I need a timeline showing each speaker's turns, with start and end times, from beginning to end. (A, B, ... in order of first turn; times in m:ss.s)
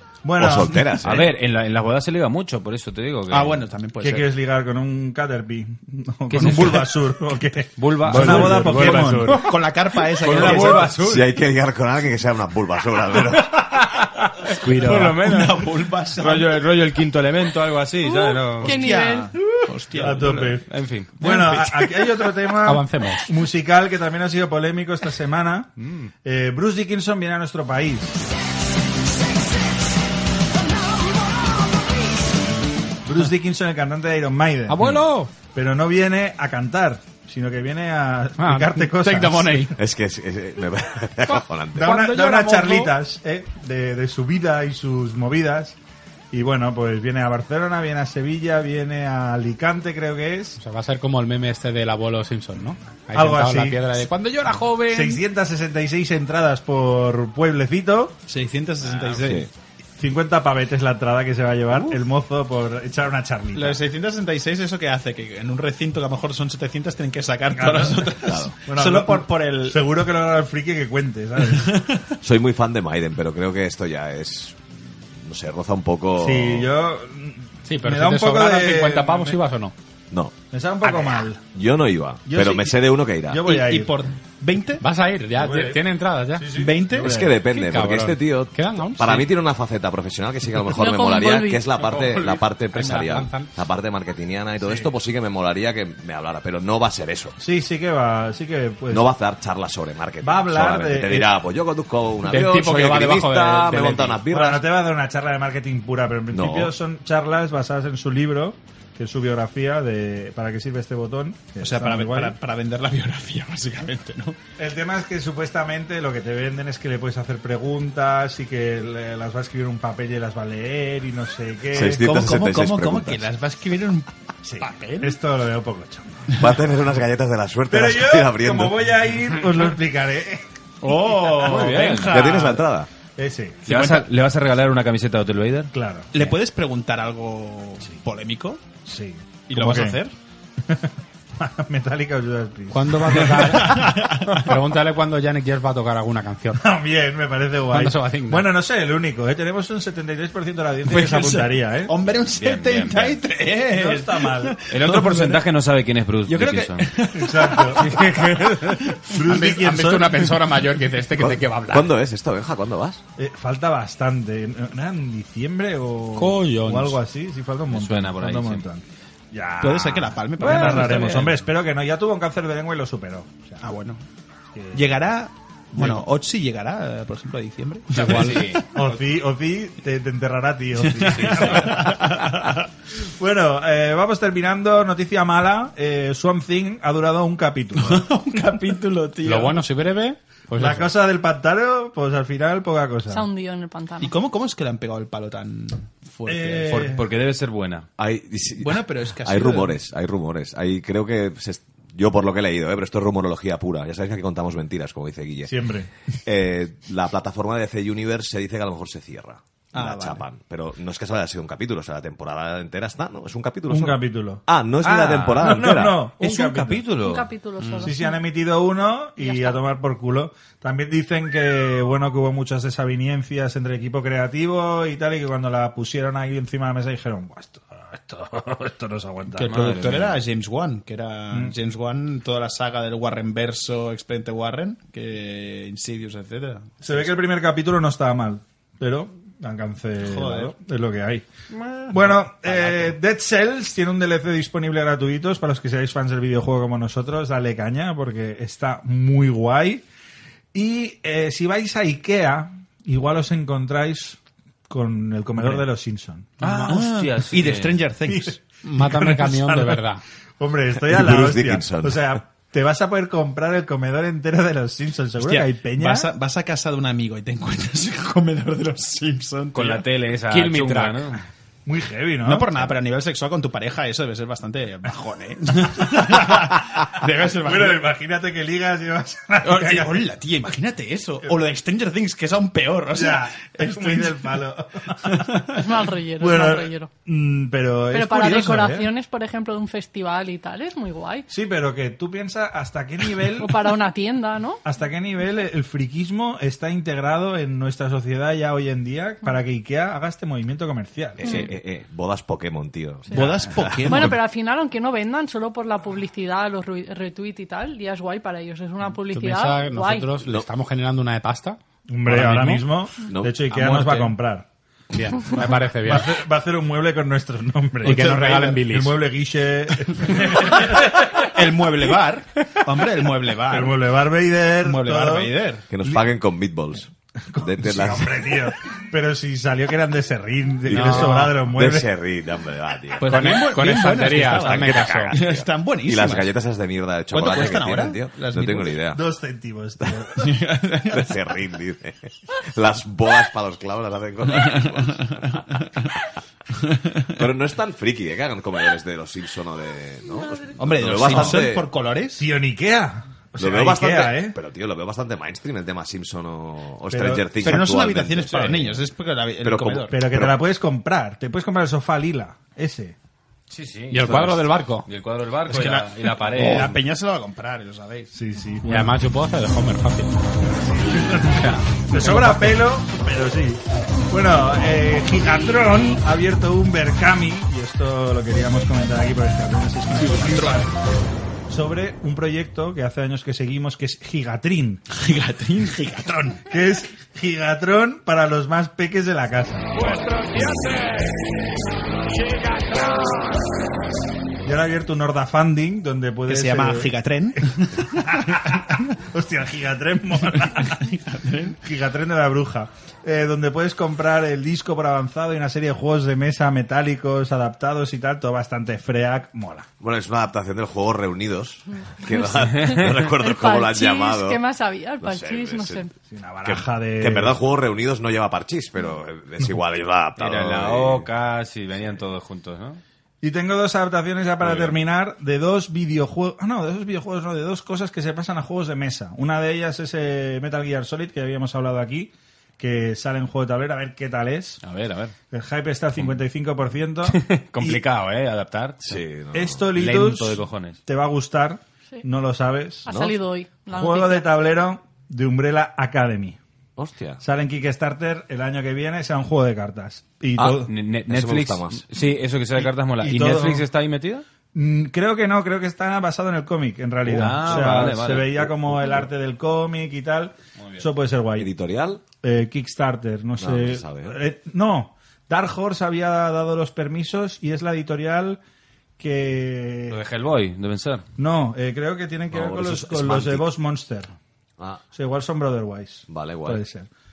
0:00.2-0:01.0 A
0:00.4-0:01.3 B
0:01.0-0:03.6 C
0:03.3-0:04.3 D
0:04.0-0:09.4 A
0:06.4-0:06.7 C
0:06.4-0:06.8 D
0:07.8-0:09.6 C
0:08.1-0:08.7 D
0:08.2-0:09.1 E
0:09.3-0:11.0 D
0:10.2-0:11.3 C
0:10.9-0:13.6 B
0:13.8-0:18.8 C
0:14.6-0:16.7 D
0:18.0-0:19.3 F
0:18.6-0:20.6 D
0:20.0-0:21.1 C
0:20.0-0:25.7 A
0:21.2-0:22.4 D
0:22.6-0:23.3 E
0:25.8-0:26.1 C
0:26.2-0:28.2 A
0:33.0-0:39.7 A
0:34.7-0:35.4 E
0:38.4-0:39.8 E
0:39.8-0:41.9 B
0:41.3-0:42.8 E
0:41.8-0:45.8 A
0:41.9-0:42.9 D
0:46.3-0:50.6 A
0:50.6-0:55.2 E
0:53.1-0:53.8 A
0:54.9-0:58.2 A
0:58.3-0:59.5 D
0:59.1-0:59.5 B
1:00.0-1:03.8 A
1:03.5-1:09.9 D
1:07.5-1:11.9 A
1:08.3-1:08.5 B
1:11.6-1:12.0 D
1:12.2-1:16.7 B
1:16.2-1:19.5 A
1:17.7-1:19.8 E
1:20.4-1:21.5 A
1:21.5-1:23.4 B
1:22.2-1:24.0 A
1:23.4-1:24.8 D
1:24.8-1:26.5 E
1:25.3-1:27.4 A
1:26.6-1:27.2 D
1:26.9-1:37.4 B
1:27.5-1:29.3 E
1:30.6-1:31.6 F
1:31.8-1:33.5 E
1:32.9-1:33.3 D
1:34.6-1:34.9 A
1:37.4-1:39.2 A
1:38.9-1:44.6 B
1:40.2-1:41.3 A
1:42.2-1:44.2 E
1:44.2-1:52.4 A
1:46.3-1:46.7 B
1:51.6-1:54.4 D
1:54.6-2:02.1 A
2:01.7-2:03.3 B
2:01.8-2:04.1 D
2:04.4-2:06.4 A
2:04.6-2:05.2 D
2:06.4-2:08.8 B
2:07.7-2:10.4 A
2:10.8-2:12.6 D
2:11.4-2:12.2 C
2:12.1-2:12.9 B
2:13.2-2:13.6 A
2:13.7-2:14.1 D
2:13.7-2:15.7 C
2:15.7-2:16.1 A
2:16.1-2:18.6 D
2:18.8-2:20.0 A
2:19.5-2:20.2 D
2:20.7-2:23.9 A
2:22.7-2:26.6 E
2:23.2-2:24.6 D
2:26.6-2:31.9 A
2:27.7-2:28.5 E
2:30.9-2:35.4 D
2:32.3-2:33.2 C
2:33.7-2:34.6 A
2:34.7-2:36.9 C
2:36.3-2:39.1 D
2:37.2-2:38.0 A
2:37.7-2:39.0 C
2:39.0-2:40.6 A
2:39.2-2:41.9 E
2:41.1-2:43.0 B
2:43.2-2:53.7 A
2:46.2-2:47.0 C
2:46.2-2:46.9 E
2:47.7-2:48.7 C
2:49.6-2:51.4 D
2:50.4-2:51.3 C
2:53.6-2:54.0 D
2:54.5-2:55.0 A
2:54.7-2:58.6 D
2:57.9-2:58.6 C
2:58.2-3:01.9 A
3:00.8-3:02.6 D
3:01.1-3:01.8 C
3:03.2-3:08.1 A
3:07.8-3:09.6 D
3:09.2-3:10.9 E
3:10.5-3:13.3 A
3:13.1-3:14.1 F
3:14.0-3:16.9 D
3:16.3-3:17.0 A
3:16.7-3:17.9 C
3:18.0-3:25.5 B
3:18.6-3:19.8 D
3:25.4-3:25.9 A
3:26.2-3:36.1 B
3:29.7-3:30.2 D
3:33.7-3:34.4 A
3:34.8-3:35.6 C
3:34.9-3:35.4 D
3:35.4-3:36.9 A
3:36.2-3:37.3 C
3:37.0-3:38.2 F
3:37.8-3:49.5 A
3:39.2-3:39.6 F
3:49.4-3:57.1 D
3:49.4-3:50.2 C
3:56.8-4:01.3 A
4:00.0-4:00.6 D
4:01.6-4:03.0 D
4:01.9-4:09.8 A
4:10.5-4:16.6 A
4:16.4-4:17.8 C
4:16.5-4:18.4 D
4:18.0-4:26.1 A
4:18.6-4:20.0 E
4:20.9-4:22.1 B
4:25.2-4:29.8 D
4:29.5-4:31.2 C
4:30.3-4:31.0 E
4:31.7-4:32.6 A
4:32.2-4:37.8 D
4:37.4-4:40.0 A
4:39.4-4:44.4 D
4:42.9-4:45.3 A
4:45.0-4:45.6 D
4:45.6-4:46.9 F
4:46.2-4:48.9 A
4:47.9-4:51.3 F
4:51.3-4:53.6 A
4:53.4-4:54.6 F
4:54.6-5:01.5 A
5:01.2-5:04.0 B
5:01.2-5:01.5 F
5:03.1-5:04.2 D
5:03.8-5:10.1 F
5:09.1-5:12.6 E
5:10.2-5:10.5 B
5:11.9-5:14.5 A
5:13.0-5:13.5 B
5:13.5-5:14.2 D
5:14.9-5:16.1 E
5:15.2-5:21.1 A
5:17.8-5:19.0 E
5:17.8-5:18.7 D
5:20.5-5:23.9 D
5:23.5-5:26.2 A
5:24.6-5:25.7 D
5:25.7-5:26.9 B
5:27.3-5:31.9 A
5:27.4-5:28.2 B
5:30.7-5:31.3 E
5:30.8-5:31.2 D
5:31.4-5:33.2 B
5:33.0-5:36.3 D
5:33.1-5:35.2 E
5:34.3-5:39.0 B
5:37.1-5:38.8 D
5:38.8-5:40.5 A
5:40.2-5:41.1 D
5:40.9-5:45.5 B
5:44.4-5:45.9 D
5:46.6-5:47.2 D
5:47.2-5:51.7 B
5:50.6-5:52.2 D
5:51.1-5:51.4 A
5:52.1-5:54.4 A
5:53.4-5:58.8 B
5:56.9-5:57.6 A
5:57.4-6:00.1 D
5:59.4-6:00.4 B
5:59.8-6:03.0 A
6:03.5-6:06.8 C
6:03.9-6:04.9 E
6:05.5-6:08.9 D
6:08.1-6:08.9 A
6:08.7-6:10.2 E
6:10.4-6:20.7 A
6:11.9-6:12.6 D
6:20.0-6:20.7 D
6:21.5-6:24.8 A
6:24.9-6:26.4 D
6:26.5-6:29.9 A
6:34.4-6:36.9 A
6:36.3-6:38.8 D
6:37.8-6:40.8 A
6:40.3-6:41.6 D
6:41.6-6:49.7 A
6:49.8-6:54.4 B
6:52.0-6:55.9 F
6:52.5-6:52.9 C
6:55.0-6:55.9 B
6:56.0-6:57.4 A
6:56.5-7:01.1 B
7:00.2-7:02.8 C
7:03.2-7:14.6 A
7:04.5-7:04.7 B
7:14.6-7:15.2 C
7:15.3-7:17.8 A
7:17.0-7:19.0 C
7:18.8-7:19.7 B
7:19.3-7:22.9 A
7:19.8-7:20.8 C
7:22.9-7:24.3 F
7:23.7-7:26.4 A
7:26.8-7:27.2 B
7:27.2-7:30.7 A
7:30.4-7:34.2 C
7:31.1-7:31.8 B
7:32.6-7:33.7 A
7:34.5-7:41.5 A
7:37.1-7:38.8 C
7:41.4-7:42.0 B
7:42.1-7:48.4 A
7:43.4-7:44.2 B
7:49.0-7:50.0 A
7:49.9-7:51.0 C
7:51.2-7:54.1 A
7:52.3-7:53.4 B
7:54.9-7:56.9 A
7:56.1-7:56.6 B